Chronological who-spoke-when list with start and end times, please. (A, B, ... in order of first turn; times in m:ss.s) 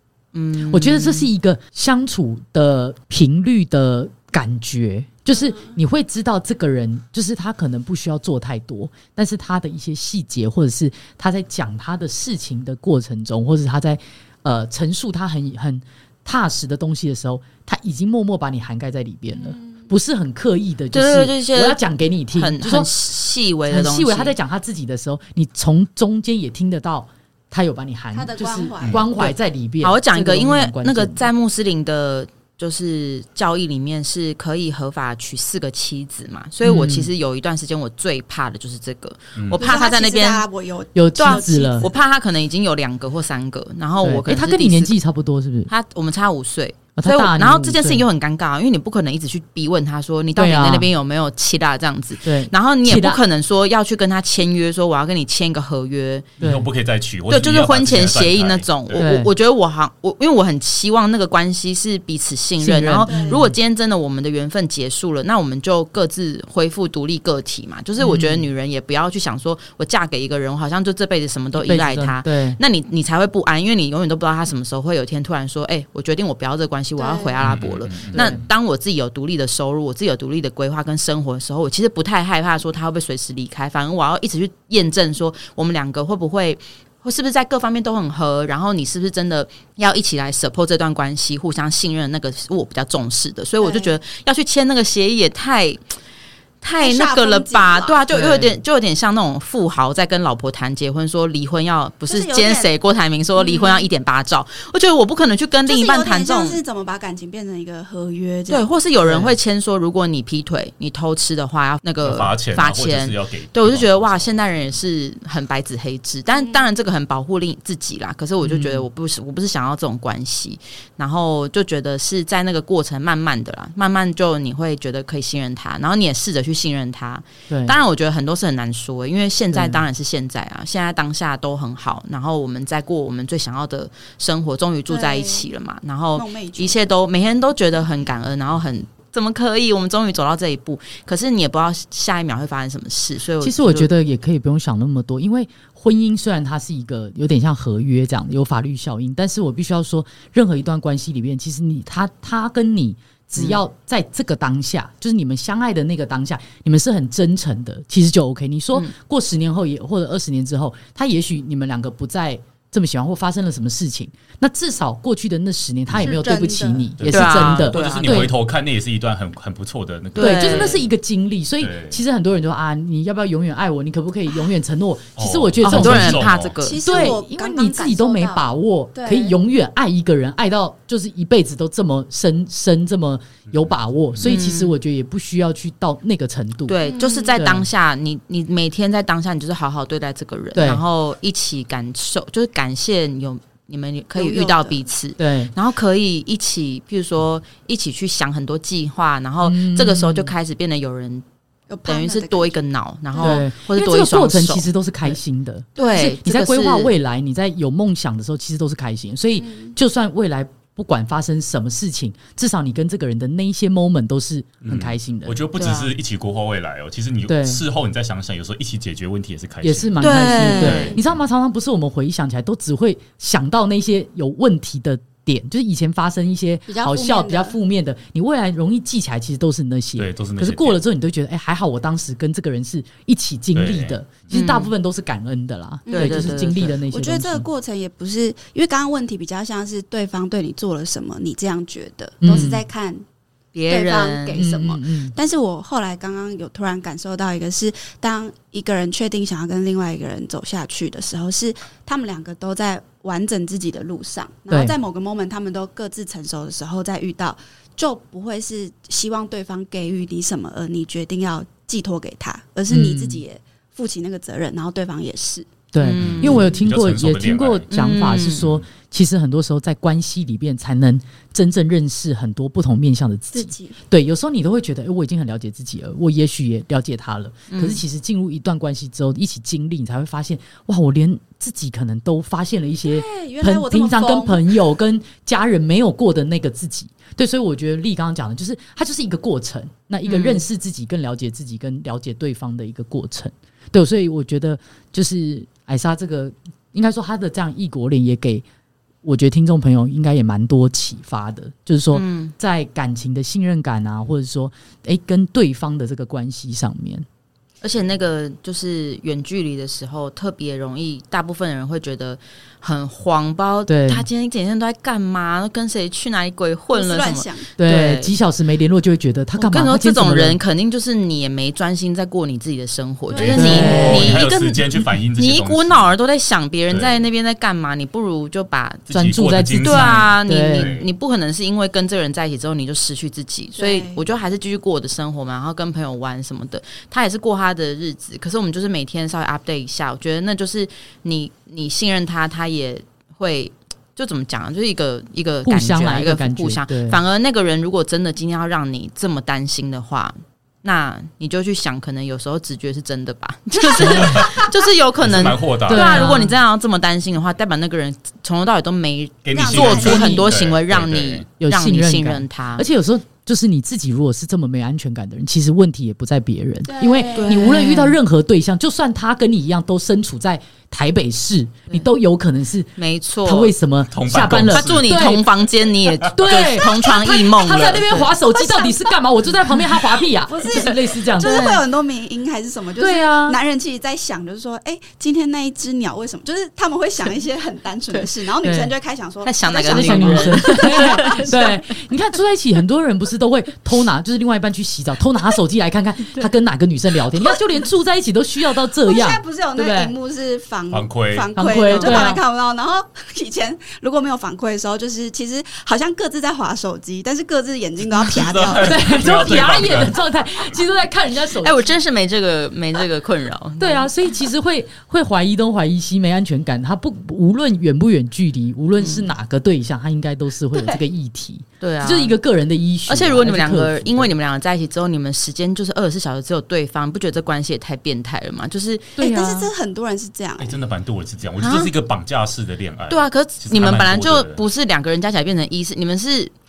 0:00.3-0:01.3 A
0:00.7-0:22.9 B
0:05.3-0:05.8 C
0:19.4-0:19.8 C
0:20.9-0:21.8 A
0:22.3-0:24.4 A
0:23.7-0:31.3 B
0:28.1-0:29.2 C
0:28.8-0:29.1 D
0:29.2-0:40.4 A
0:36.6-0:37.1 B
0:39.4-0:39.6 D
0:39.5-0:41.9 C
0:41.0-0:41.9 B
0:41.2-0:44.9 A
0:44.0-0:45.7 B
0:45.7-0:56.3 A
0:47.0-0:48.0 B
0:50.4-0:50.9 B
0:52.2-0:53.2 B
0:56.4-0:56.7 B
0:56.4-0:59.0 D
0:57.3-1:35.8 A
0:59.0-0:59.3 B
1:02.6-1:03.5 B
1:03.0-1:03.4 C
1:08.0-1:08.4 B
1:11.6-1:12.6 B
1:17.0-1:17.4 C
1:17.4-1:18.4 D
1:18.1-1:18.4 B
1:33.6-1:34.0 C
1:36.6-1:46.6 A
1:36.8-1:38.0 C
1:38.1-1:38.6 B
1:42.1-1:42.7 C
1:43.4-1:43.9 C
1:45.6-1:48.7 C
1:48.5-2:23.9 A
1:49.0-1:49.3 B
1:52.0-1:54.8 D
1:56.3-1:56.6 C
1:58.4-1:58.8 B
2:07.5-2:07.8 B
2:09.5-2:09.8 B
2:14.9-2:15.5 C
2:16.2-2:16.9 C
2:23.4-2:48.3 B
2:33.4-2:33.6 A
2:46.0-2:46.9 C
2:47.0-2:50.9 D
2:47.1-2:48.3 A
2:50.2-2:50.8 A
2:50.2-2:56.3 B
2:51.6-2:52.0 D
2:55.2-2:56.6 D
2:55.6-2:57.2 A
2:56.6-2:59.4 C
2:56.8-3:06.8 B
3:03.5-3:04.3 D
3:04.2-3:04.8 A
3:06.7-3:21.2 A
3:06.8-3:07.4 C
3:07.3-3:07.7 B
3:10.6-3:10.8 B
3:14.2-3:14.8 C
3:15.2-3:15.5 B
3:19.4-3:20.3 B
3:21.7-3:22.6 C
3:21.9-3:25.2 A
3:23.1-3:23.4 C
3:23.2-3:35.4 B
3:25.8-3:26.9 A
3:25.8-3:26.0 C
3:29.4-3:29.7 C
3:34.6-3:41.2 D
3:35.6-3:35.9 A
3:37.3-3:37.6 B
3:39.6-3:57.4 B
3:40.0-3:41.0 A
3:40.3-3:41.0 C
3:46.7-3:47.6 C
3:50.0-3:50.8 D
3:53.6-3:54.4 D
3:54.3-3:54.7 A
3:55.9-4:03.0 C
3:55.9-3:56.7 A
4:02.2-4:02.6 B
4:03.5-4:04.4 A
4:03.7-4:25.5 C
4:04.4-4:05.1 B
4:14.5-4:14.8 B
4:22.7-4:23.2 B
4:25.7-4:58.4 B
4:25.8-4:26.5 A
4:26.0-4:27.7 D
4:27.7-4:28.5 A
4:28.4-4:28.7 D
4:33.3-4:33.8 C
4:37.5-4:37.8 A
4:42.8-4:44.4 C
4:50.0-4:50.4 A
4:59.0-5:07.0 B
5:01.9-5:02.3 A
5:07.6-5:18.2 A
5:13.7-5:14.0 B
5:16.7-5:17.5 C
5:17.6-5:20.4 B
5:19.4-5:28.9 A
5:23.1-5:24.3 C
5:23.1-5:25.9 D
5:23.3-5:24.2 B
5:26.7-5:27.1 D
5:28.9-5:30.9 D
5:28.9-5:30.7 B
5:29.6-6:02.7 A
5:33.6-5:34.0 C
5:45.4-5:47.0 B
5:53.8-5:54.3 C
5:53.8-5:54.1 B
5:53.9-5:54.5 D
5:55.0-5:56.2 D
5:55.7-5:56.4 B
5:59.2-6:01.2 D
5:59.3-6:00.3 C
6:01.4-6:12.7 B
6:06.6-6:07.7 C
6:07.1-6:08.0 A
6:12.8-6:13.5 A
6:13.2-6:15.2 B
6:13.9-6:15.1 D
6:14.5-6:18.1 A
6:15.9-6:16.1 D
6:16.1-6:21.5 B
6:18.2-6:18.9 C
6:20.3-6:31.4 C
6:20.5-6:21.6 A
6:22.8-6:23.4 B
6:28.4-6:28.7 B
6:29.2-6:31.6 A
6:29.7-6:39.9 B
6:38.8-6:48.8 C
6:40.7-6:41.3 D
6:41.4-6:42.2 B
6:41.6-6:42.2 A
6:47.8-6:50.0 D
6:48.6-6:51.8 B
6:51.4-6:53.9 A
6:53.6-7:04.1 B
6:58.8-6:59.1 A
7:01.6-7:02.2 A
7:02.9-7:09.0 A
7:09.0-7:09.5 B
7:09.0-7:10.6 C
7:10.4-7:14.4 D
7:11.4-7:11.7 A
7:12.9-7:16.3 A